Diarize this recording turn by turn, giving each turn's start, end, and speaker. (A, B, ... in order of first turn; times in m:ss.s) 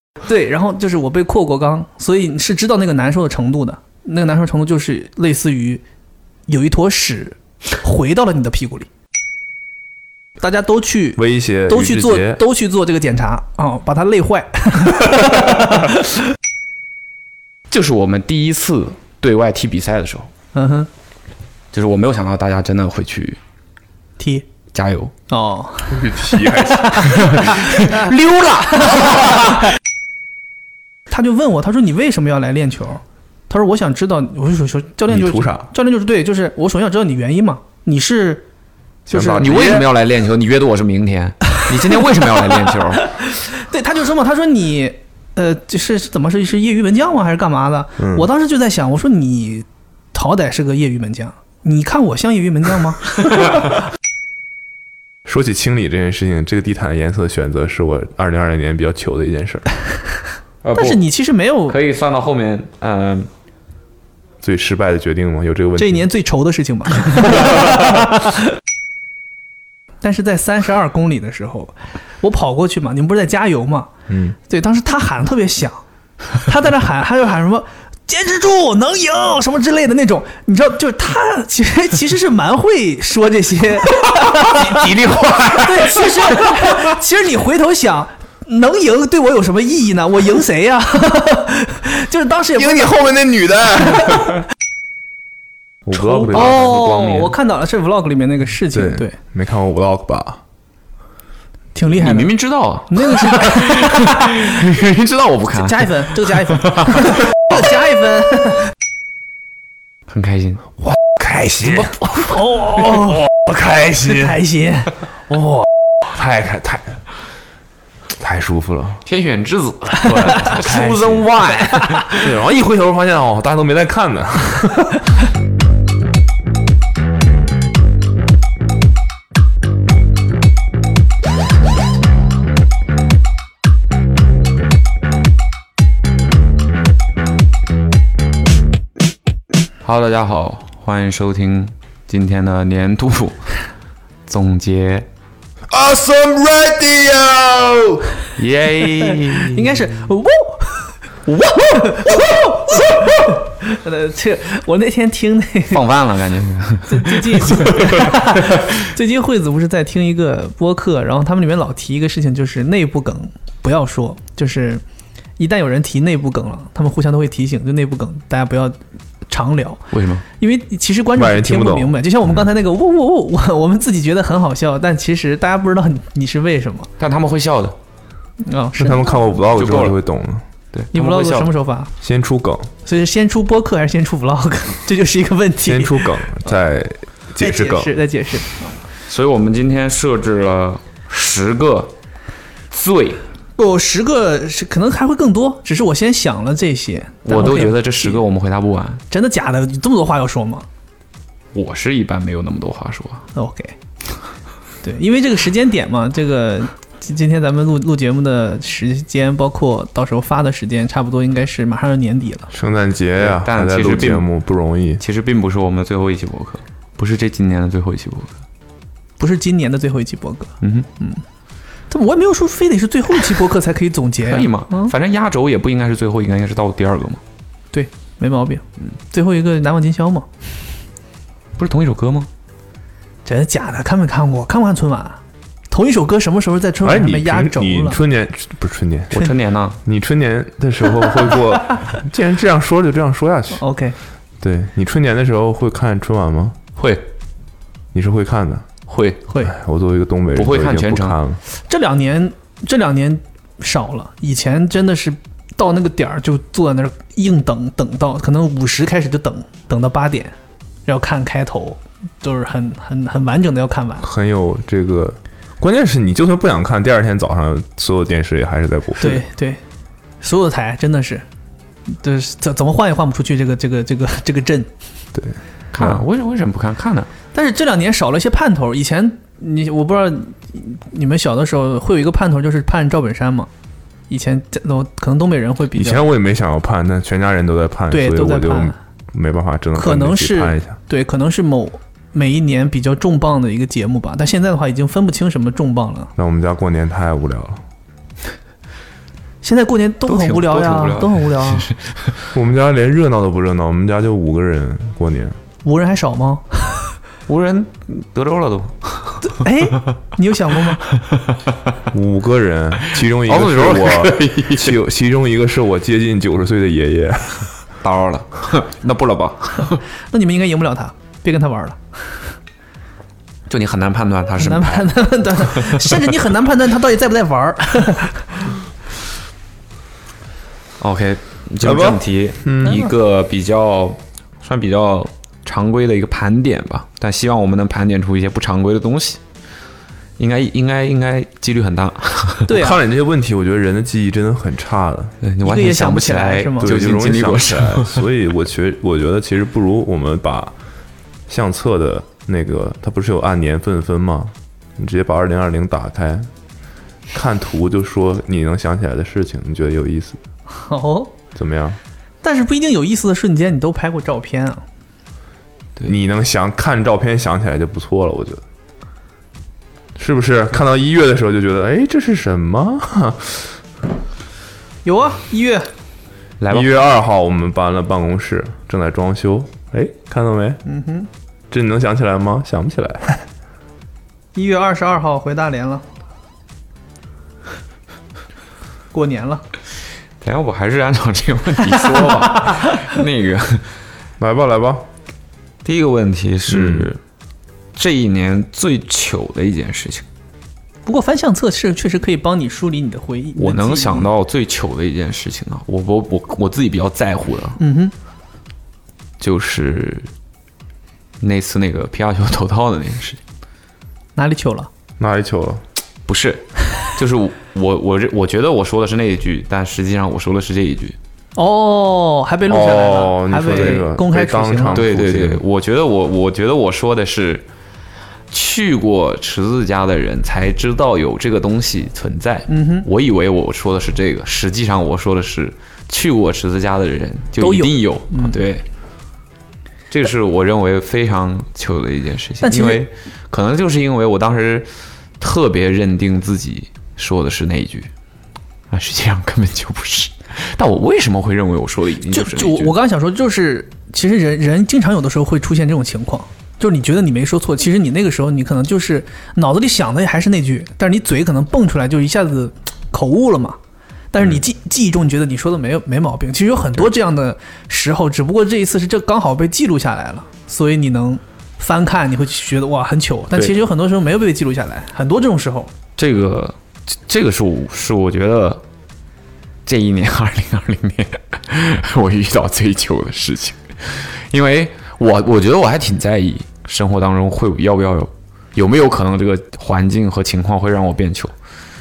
0:00.3-0:05.8 A
0:06.5-0:08.9 A
0:10.4-0:16.0 A
0:11.2-0:12.4 B
0:17.7-0:20.3 C
0:20.6-0:20.9 A
0:21.7-0:23.4 C
0:24.2-0:24.5 A
0:24.7-0:25.1 C
0:25.3-0:28.1 A
0:25.9-0:27.3 B
0:27.0-0:29.6 C
0:31.1-0:38.4 A
0:35.1-0:35.7 B
0:39.1-0:39.5 A
0:39.1-0:43.1 C
0:39.3-0:39.9 B
0:43.0-0:53.1 A
0:48.0-0:48.3 B
0:55.2-0:59.7 B
1:00.6-1:01.0 C
1:00.7-1:01.8 A
1:01.7-1:03.3 C
1:04.4-1:06.1 B
1:05.8-1:08.4 A
1:07.1-1:08.0 B
1:10.0-1:13.9 A
1:14.1-1:14.4 B
1:14.4-1:15.8 A
1:16.3-1:24.8 A
1:24.1-1:26.5 B
1:25.5-1:32.9 A
1:32.6-1:34.4 B
1:35.8-1:36.5 B
1:35.9-1:39.2 A
1:36.3-1:37.4 C
1:38.7-1:40.4 B
1:41.7-1:42.3 A
1:42.0-1:47.1 C
1:42.9-1:44.6 A
1:45.5-1:48.7 A
1:50.1-1:50.7 C
1:50.9-1:54.4 B
1:51.7-1:53.2 A
1:54.1-1:54.9 A
1:55.3-1:57.0 B
1:58.2-1:59.0 B
1:59.0-2:02.3 C
2:00.4-2:05.0 B
2:19.8-2:23.6 C
2:24.3-2:25.1 C
2:25.7-2:28.2 B
2:28.4-2:29.7 C
2:29.4-2:31.0 A
2:31.5-2:35.8 A
2:35.7-2:38.0 C
2:36.9-2:44.8 A
2:45.4-2:56.9 A
2:49.9-2:50.2 C
2:51.2-2:51.9 B
2:57.0-2:57.8 C
2:58.4-2:59.2 A
2:58.8-3:00.4 B
2:59.5-3:00.0 C
3:00.7-3:01.5 C
3:00.9-3:01.9 A
3:02.0-3:02.7 B
3:02.8-3:06.2 A
3:05.6-3:07.9 B
3:07.4-3:08.8 A
3:09.1-3:11.9 C
3:12.7-3:13.2 C
3:13.6-3:18.2 A
3:17.2-3:19.0 C
3:19.1-3:20.6 A
3:21.5-3:23.3 C
3:23.3-3:23.8 A
3:24.8-3:32.5 A
3:32.5-3:35.0 B
3:33.2-3:34.3 C
3:35.0-3:38.3 C
3:39.2-3:41.2 A
3:40.6-3:40.9 C
3:41.9-3:44.9 A
3:44.2-3:47.2 C
3:47.7-3:50.3 A
3:51.6-3:52.3 C
3:53.2-3:55.2 A
3:55.7-3:58.0 A
3:56.8-3:59.2 B
3:59.1-3:59.8 C
3:59.8-4:03.6 B
4:03.5-4:04.0 A
4:04.4-4:06.6 B
4:06.8-4:07.0 C
4:07.9-4:08.7 B
4:08.9-4:09.2 C
4:09.4-4:11.4 B
4:10.3-4:11.2 C
4:11.7-4:20.4 A
4:20.9-4:24.1 A
4:24.0-4:29.2 B
4:29.0-4:29.6 A
4:30.2-4:31.3 A
4:31.9-4:34.7 A
4:35.2-4:36.0 B
4:35.7-4:37.1 C
4:37.3-4:43.5 A
4:44.1-4:46.0 A
4:45.7-4:50.8 B
4:47.9-4:48.8 A
4:49.8-4:56.1 A
4:56.2-4:57.6 B
4:59.4-5:01.7 A
5:00.1-5:02.2 C
5:02.3-5:05.4 B
5:05.6-5:06.9 A
5:07.3-5:09.3 C
5:09.3-5:10.9 A
5:11.1-5:11.4 C
5:11.9-5:17.5 B
5:12.9-5:14.8 C
5:17.8-5:19.8 C
5:20.1-5:22.3 A
5:23.5-5:24.9 C
5:24.4-5:28.5 A
5:30.8-5:39.2 C
5:31.6-5:32.9 B
5:40.2-5:42.6 C
5:42.5-5:42.8 A
5:42.5-5:45.2 B
5:45.2-5:48.0 C
5:45.4-5:46.7 A
5:46.6-5:50.5 B
5:51.3-5:56.3 B
5:57.1-6:00.2 B
6:00.5-6:01.1 A
6:01.4-6:01.8 B
6:02.2-6:04.6 A
6:05.8-6:08.4 B
6:10.0-6:13.6 B
6:14.8-6:15.7 A
6:16.4-6:16.7 C
6:16.5-6:20.6 B
6:20.6-6:21.1 A
6:21.5-6:23.3 B
6:24.4-6:25.8 A
6:28.9-6:29.4 A
6:30.2-6:33.7 C
6:34.2-6:34.9 B
6:35.6-6:37.0 C
6:36.5-6:36.9 B
6:37.8-6:40.0 C
6:40.9-6:44.1 A
6:43.4-6:47.6 C
6:47.6-6:47.9 A
6:49.2-6:50.1 C
6:51.2-6:53.2 C
6:54.2-6:54.7 A
6:55.0-6:55.6 B
6:56.1-7:01.0 C
7:01.4-7:04.8 A
7:02.5-7:05.4 B
7:03.5-7:03.8 C
7:04.7-7:07.4 C
7:08.3-7:18.6 C
7:12.5-7:12.9 A
7:17.4-7:18.4 A
7:19.9-7:27.9 C
7:22.4-7:22.8 A
7:28.7-7:32.7 C
7:32.1-7:43.6 A
7:44.1-7:55.7 A
7:56.0-7:58.6 C
7:59.7-8:11.3 C